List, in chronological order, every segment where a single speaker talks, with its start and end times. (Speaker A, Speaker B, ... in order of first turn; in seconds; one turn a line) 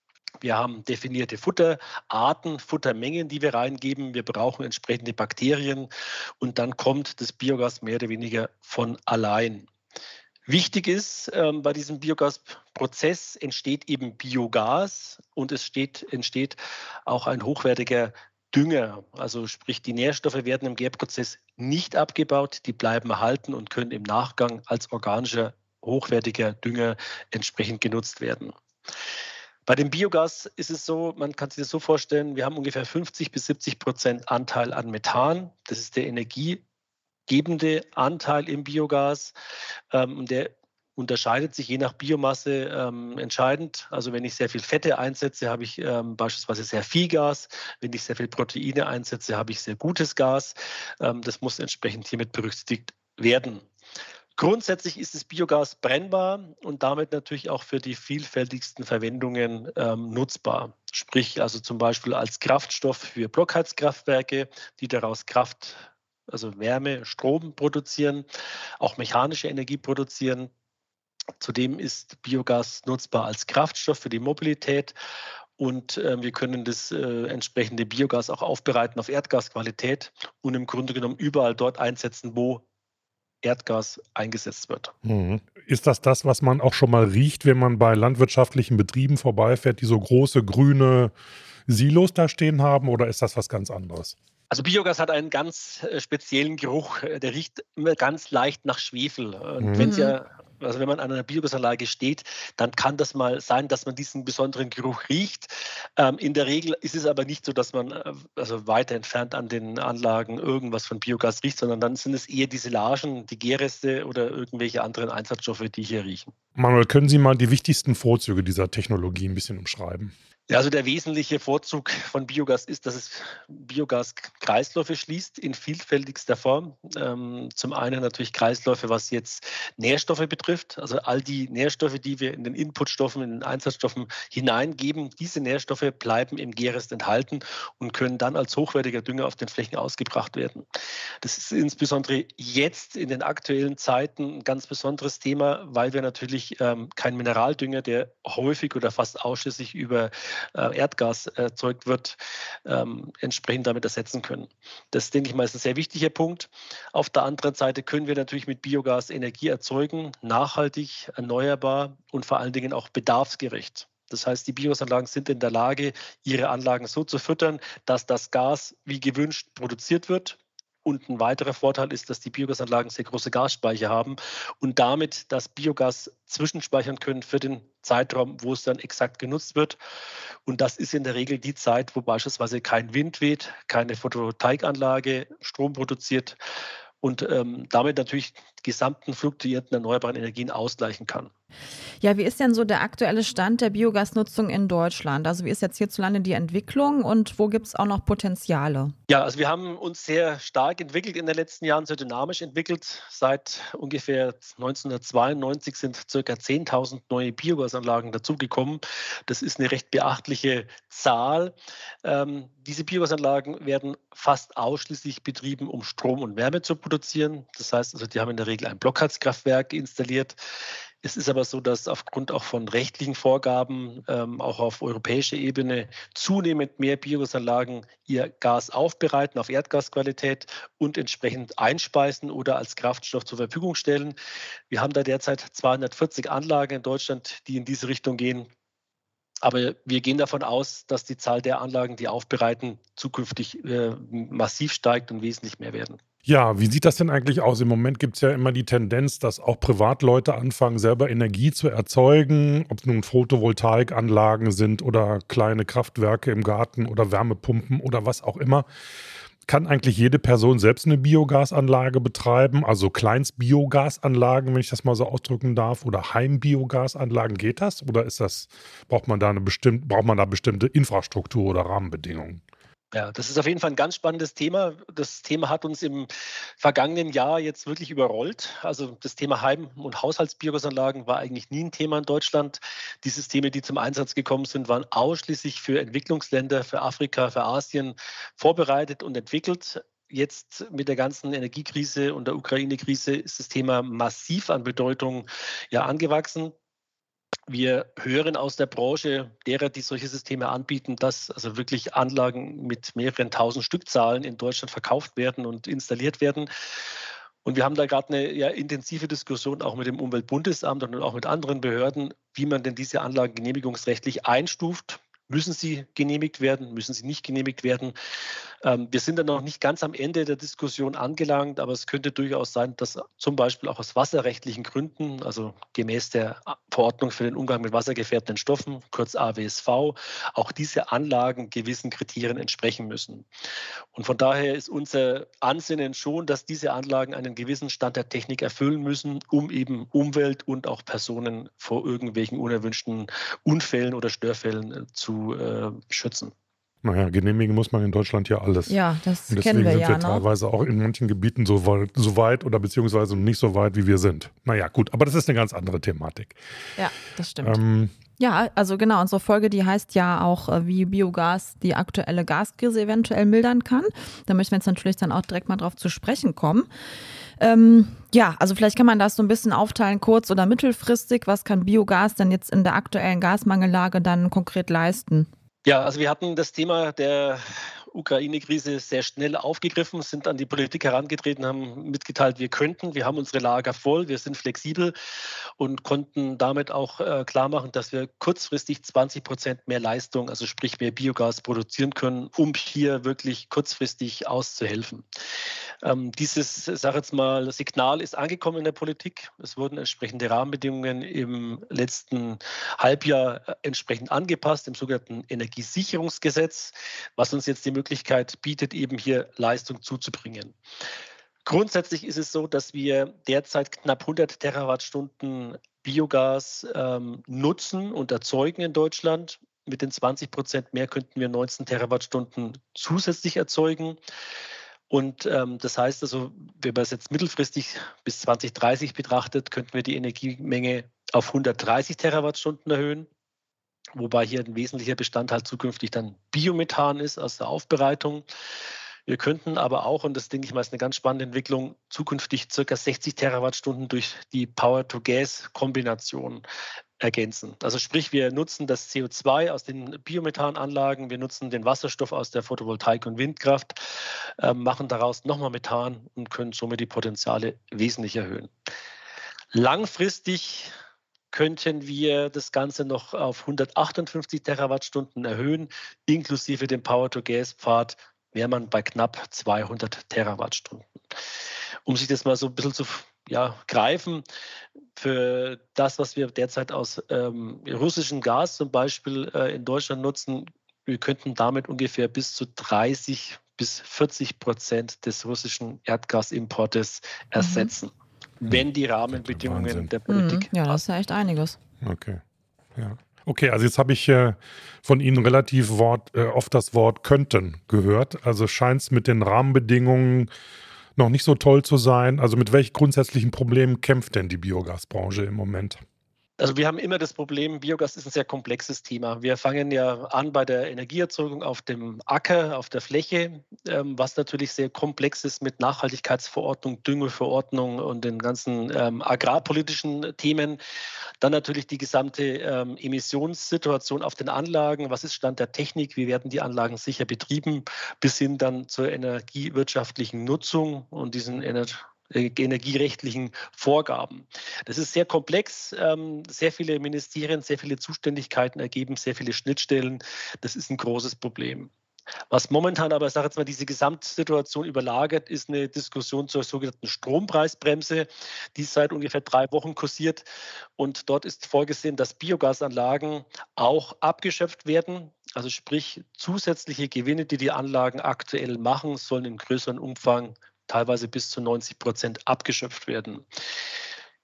Speaker A: 0.4-9.7
Speaker A: 10.5-28.5
Speaker A: 29.6-36.6
Speaker A: 37.3-39.3
Speaker A: 39.9-53.6
Speaker A: 54.4-68.2
Speaker A: 68.8-70.5
Speaker A: 71.4-74.9
Speaker A: 75.6-82.6
Speaker A: 83.4-84.9
Speaker B: 85.0-91.1
Speaker B: 91.7-94.2
Speaker A: 94.5-116.3
Speaker B: 99.6-99.9
Speaker C: 99.8-100.2
Speaker B: 116.5-120.1
Speaker A: 120.5-140.7
Speaker A: 141.2-179.8
Speaker A: 180.4-186.4
Speaker A: 187.0-191.3
Speaker C: 192.0-198.9
Speaker A: 199.1-220.4
Speaker A: 221.0-234.2
Speaker A: 234.7-238.5
Speaker A: 239.4-246.0
Speaker B: 246.2-258.6
Speaker B: 259.4-272.4
Speaker A: 272.9-296.5
Speaker A: 297.5-306.5
Speaker A: 307.4-317.9
Speaker A: 318.6-333.3
Speaker A: 333.9-346.3
Speaker B: 346.8-348.8
Speaker C: 348.7-350.2
Speaker B: 349.3-356.4
Speaker C: 356.8-357.6
Speaker B: 357.4-357.9
Speaker C: 358.2-366.7
Speaker C: 367.4-375.3
Speaker A: 375.6-384.9
Speaker A: 385.6-395.1
Speaker A: 395.8-410.6
Speaker A: 411.4-424.0
Speaker A: 424.9-433.1
Speaker A: 433.9-438.2
Speaker A: 439.1-446.4
Speaker A: 447.0-458.5
Speaker A: 459.5-460.7
Speaker A: 461.3-471.2
Speaker A: 471.8-474.2
Speaker A: 474.9-490.8
Speaker C: 487.4-487.7
Speaker B: 488.5-489.9
Speaker C: 490.1-491.6
Speaker B: 491.8-492.2
Speaker B: 492.8-500.3
Speaker B: 500.9-505.8
Speaker A: 506.4-520.6
Speaker A: 521.2-541.7
Speaker A: 542.3-550.2
Speaker A: 550.8-563.2